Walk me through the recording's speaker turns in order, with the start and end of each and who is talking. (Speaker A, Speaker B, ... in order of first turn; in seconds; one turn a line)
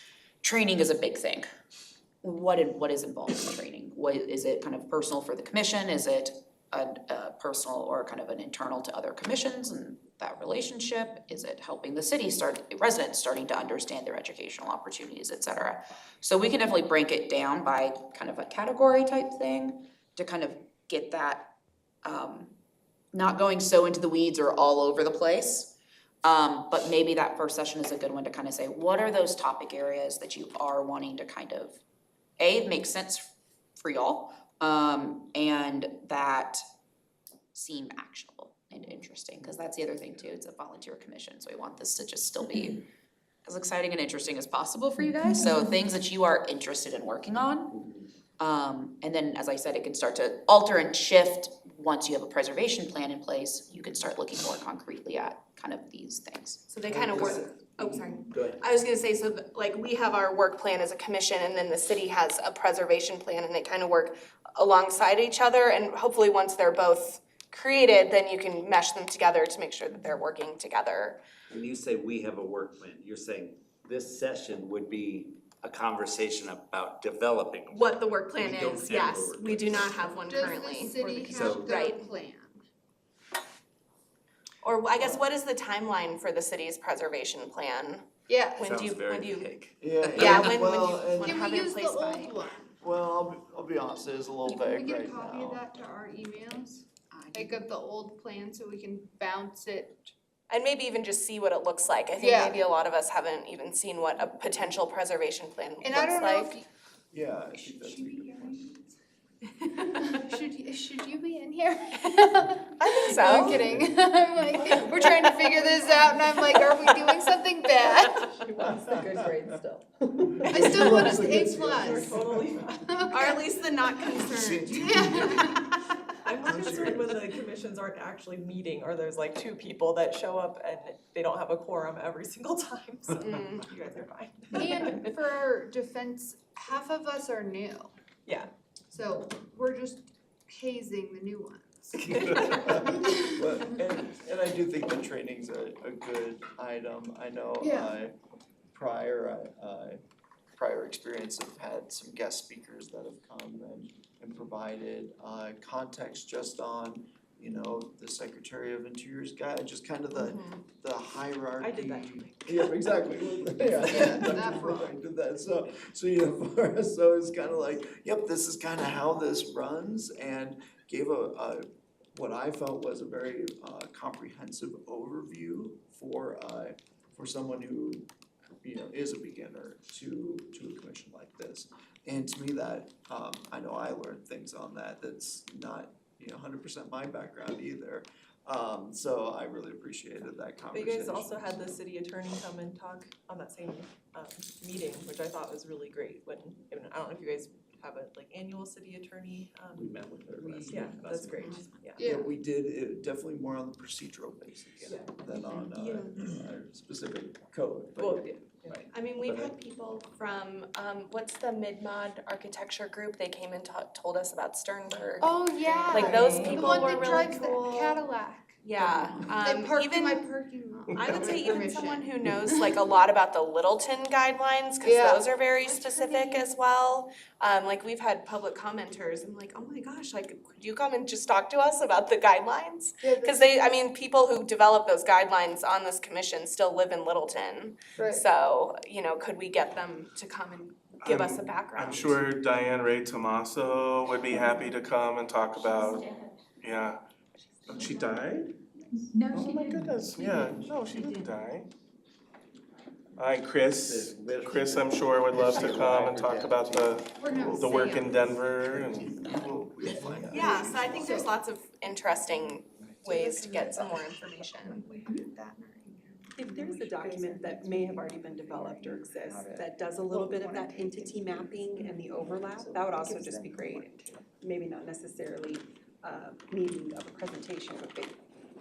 Speaker A: 0.4-1.4
Speaker A: 2.2-22.5
Speaker A: 23.1-31.8
Speaker A: 32.4-36.6
Speaker A: 37.5-42.8
Speaker A: 43.4-47.8
Speaker A: 48.4-56.6
Speaker B: 56.7-71.2
Speaker C: 56.9-58.6
Speaker C: 71.5-80.3
Speaker B: 77.7-82.0
Speaker D: 80.3-82.6
Speaker C: 81.2-81.7
Speaker B: 84.6-88.0
Speaker D: 88.3-88.7
Speaker B: 88.5-92.3
Speaker C: 88.6-90.5
Speaker E: 89.8-91.4
Speaker D: 91.2-92.8
Speaker E: 92.8-95.6
Speaker D: 94.5-100.1
Speaker A: 97.1-97.6
Speaker B: 100.5-106.5
Speaker D: 102.2-102.7
Speaker D: 105.8-106.6
Speaker E: 107.1-108.6
Speaker D: 107.5-108.9
Speaker B: 109.6-110.0
Speaker D: 109.8-118.3
Speaker B: 112.8-113.6
Speaker E: 113.4-113.8
Speaker B: 115.1-115.3
Speaker F: 118.3-120.7
Speaker E: 118.8-119.4
Speaker E: 120.4-122.5
Speaker D: 120.5-123.4
Speaker F: 121.3-122.9
Speaker B: 123.1-125.8
Speaker E: 124.2-125.6
Speaker D: 124.6-125.8
Speaker F: 126.2-135.2
Speaker E: 126.4-127.2
Speaker B: 133.1-133.7
Speaker D: 134.5-137.9
Speaker D: 138.9-143.6
Speaker F: 142.0-142.7
Speaker E: 142.2-148.1
Speaker D: 147.6-147.9
Speaker E: 148.7-150.0
Speaker E: 150.5-178.1
Speaker B: 160.1-160.6
Speaker F: 161.6-162.7
Speaker D: 163.8-164.9
Speaker E: 178.6-191.7
Speaker F: 190.7-202.0
Speaker C: 199.8-201.5
Speaker E: 200.3-208.4
Speaker B: 201.3-201.7
Speaker D: 202.0-202.3
Speaker F: 204.8-206.1
Speaker F: 208.0-208.9
Speaker C: 208.7-209.5
Speaker B: 208.9-218.1
Speaker D: 215.2-222.8
Speaker B: 218.6-220.3
Speaker G: 220.9-221.4
Speaker B: 220.9-242.2
Speaker D: 224.8-226.5
Speaker D: 233.0-233.4
Speaker D: 237.9-238.2
Speaker G: 241.0-247.0
Speaker G: 247.7-248.5
Speaker G: 249.3-251.7
Speaker G: 253.2-259.2
Speaker C: 253.8-256.8
Speaker D: 257.1-258.4
Speaker E: 258.3-261.1
Speaker D: 260.3-261.3
Speaker B: 260.3-264.8
Speaker D: 263.0-273.9
Speaker F: 266.4-269.6
Speaker H: 268.0-278.1
Speaker F: 270.1-271.1
Speaker F: 272.8-275.4
Speaker F: 276.4-277.2